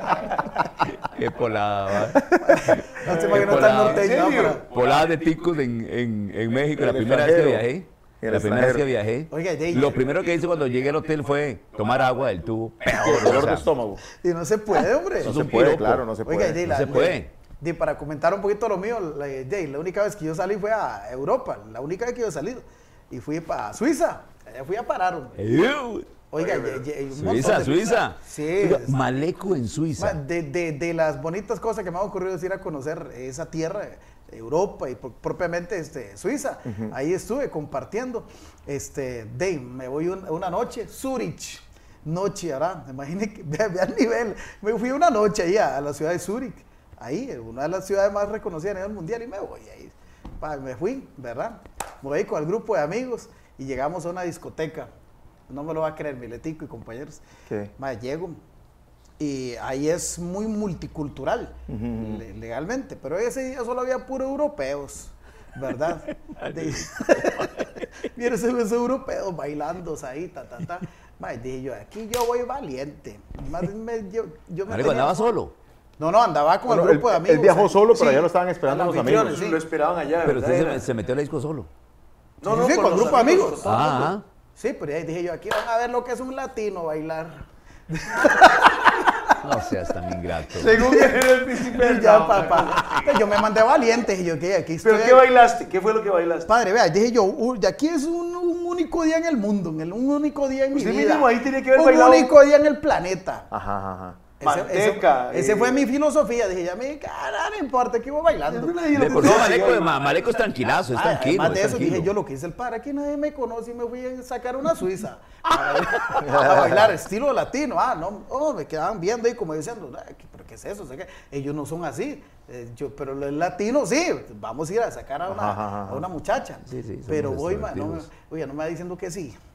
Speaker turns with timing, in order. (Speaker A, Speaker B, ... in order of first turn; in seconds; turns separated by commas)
Speaker A: 1.0-4.1, Speaker B: 2.4-4.6, Speaker C: 3.1-3.5, Speaker D: 3.4-4.6, Speaker A: 4.6-13.6, Speaker C: 6.8-7.7, Speaker C: 8.2-8.9, Speaker B: 9.3-10.0, Speaker C: 12.9-14.0, Speaker B: 14.1-15.4, Speaker A: 15.2-16.1, Speaker C: 15.2-17.1, Speaker B: 16.2-25.4, Speaker A: 16.6-17.3, Speaker A: 25.4-26.1, Speaker B: 26.3-29.0, Speaker D: 26.4-26.9, Speaker A: 27.1-30.2, Speaker B: 30.0-54.9, Speaker C: 36.7-36.9, Speaker B: 55.5-57.2, Speaker B: 57.8-58.4, Speaker B: 59.2-75.3, Speaker C: 61.7-62.2, Speaker A: 66.4-67.5, Speaker A: 74.7-75.5, Speaker B: 76.0-79.6, Speaker C: 76.7-79.4, Speaker D: 78.9-80.8, Speaker A: 80.2-81.7, Speaker D: 82.4-84.1, Speaker B: 82.4-89.4, Speaker A: 83.6-84.2, Speaker A: 89.4-90.8, Speaker D: 90.5-93.3, Speaker B: 90.6-95.3, Speaker D: 94.8-96.5, Speaker B: 96.5-103.5, Speaker D: 100.7-102.4, Speaker C: 103.5-104.2, Speaker B: 104.4-109.6, Speaker D: 104.4-105.9, Speaker D: 108.5-109.9, Speaker A: 108.9-112.1, Speaker B: 110.9-129.4, Speaker C: 116.2-116.9, Speaker C: 125.3-126.0, Speaker A: 126.7-128.1